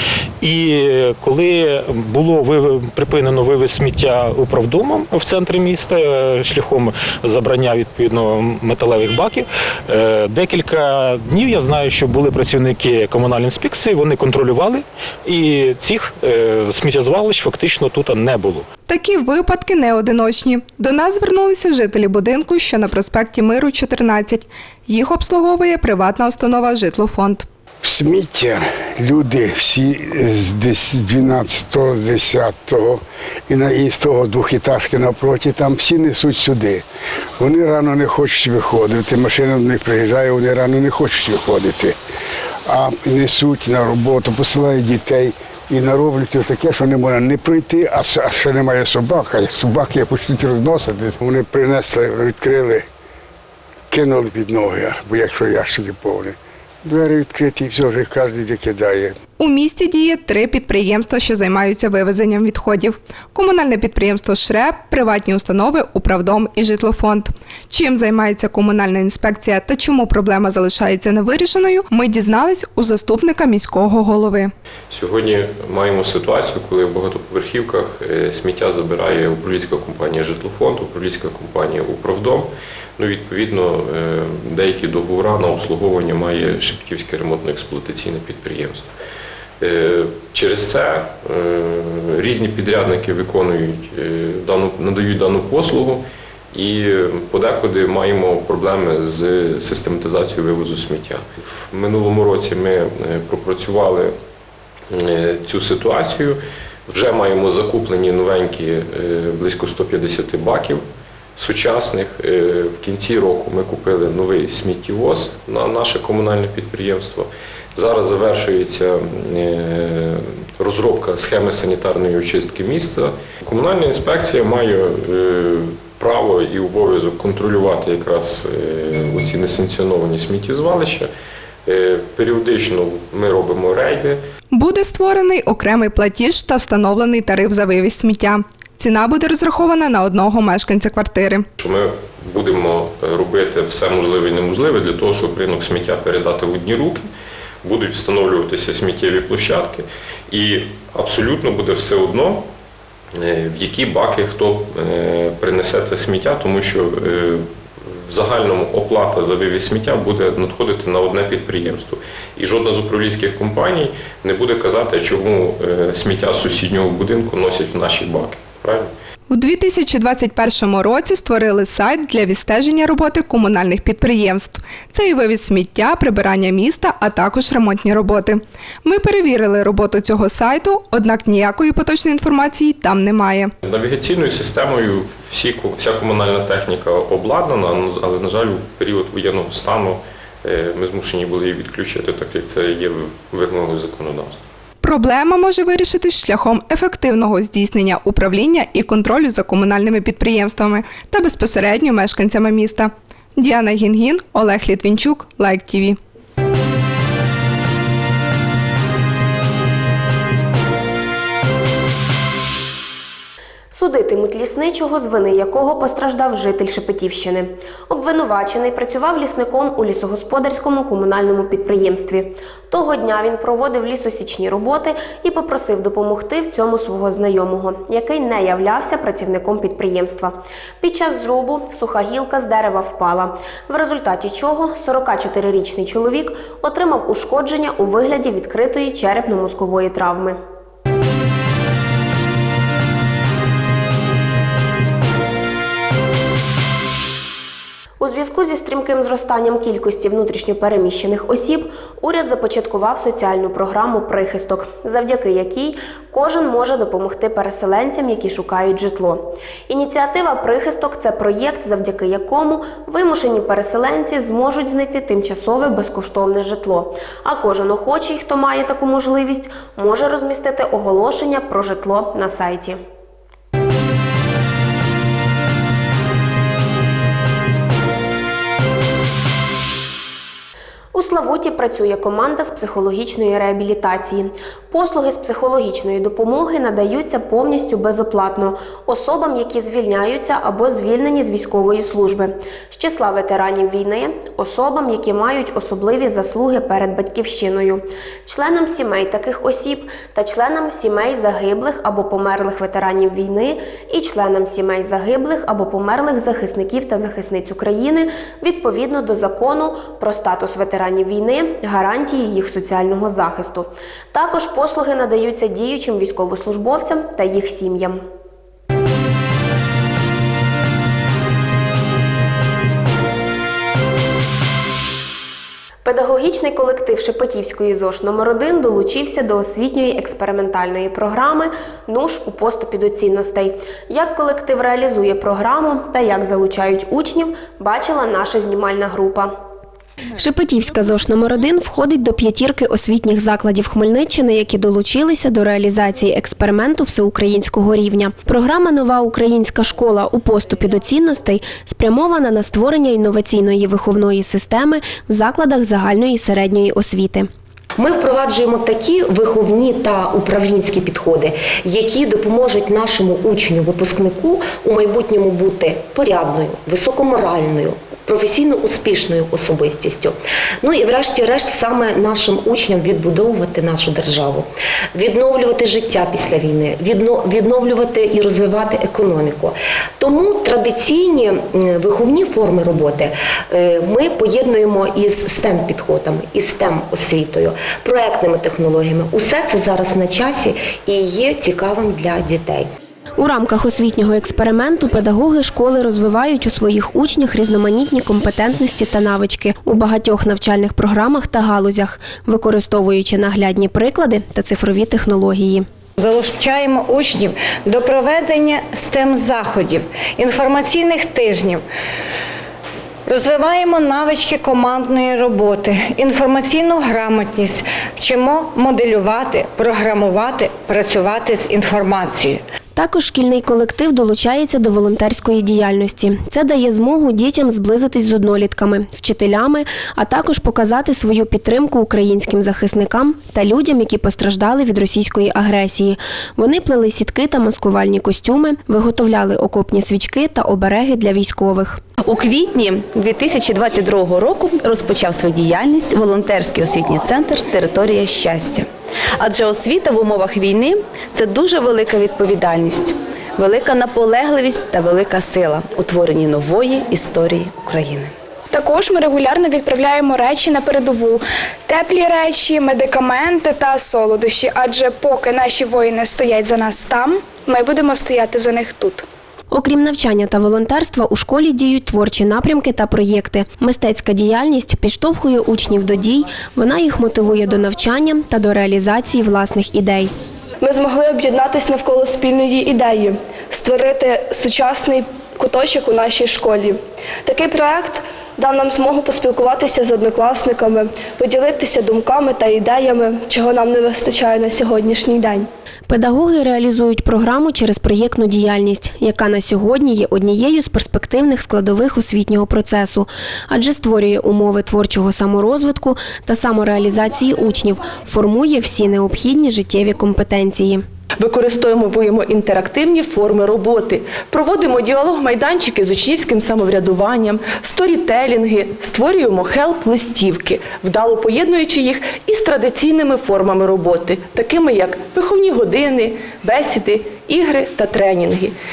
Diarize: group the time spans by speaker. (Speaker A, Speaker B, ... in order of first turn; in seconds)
Speaker A: 0.4-18.7
Speaker B: 18.9-27.4, 59.4-74.5, 134.5-141.4, 169.3-183.5, 194.8-206.0
Speaker C: 27.8-36.8, 37.4-42.0, 42.7-52.8, 53.9-59.2
Speaker D: 74.9-88.9, 89.6-104.1, 104.9-110.8, 111.4-131.1, 131.7-134.2, 141.6-147.1, 147.6-152.4, 153.2-157.4, 158.1-168.9, 183.6-194.4
Speaker E: 213.7-240.4, 248.0-272.8, 280.9-318.0, 325.8-339.3, 340.1-357.3, 393.2-405.6, 422.8-441.8, 469.5-480.1, 495.9-510.8
Speaker F: 357.8-392.7
Speaker G: 406.0-411.6, 413.1-422.4
Speaker H: 442.0-458.1
Speaker I: 458.5-469.0
Speaker J: 480.6-495.5
Speaker K: 511.2-528.5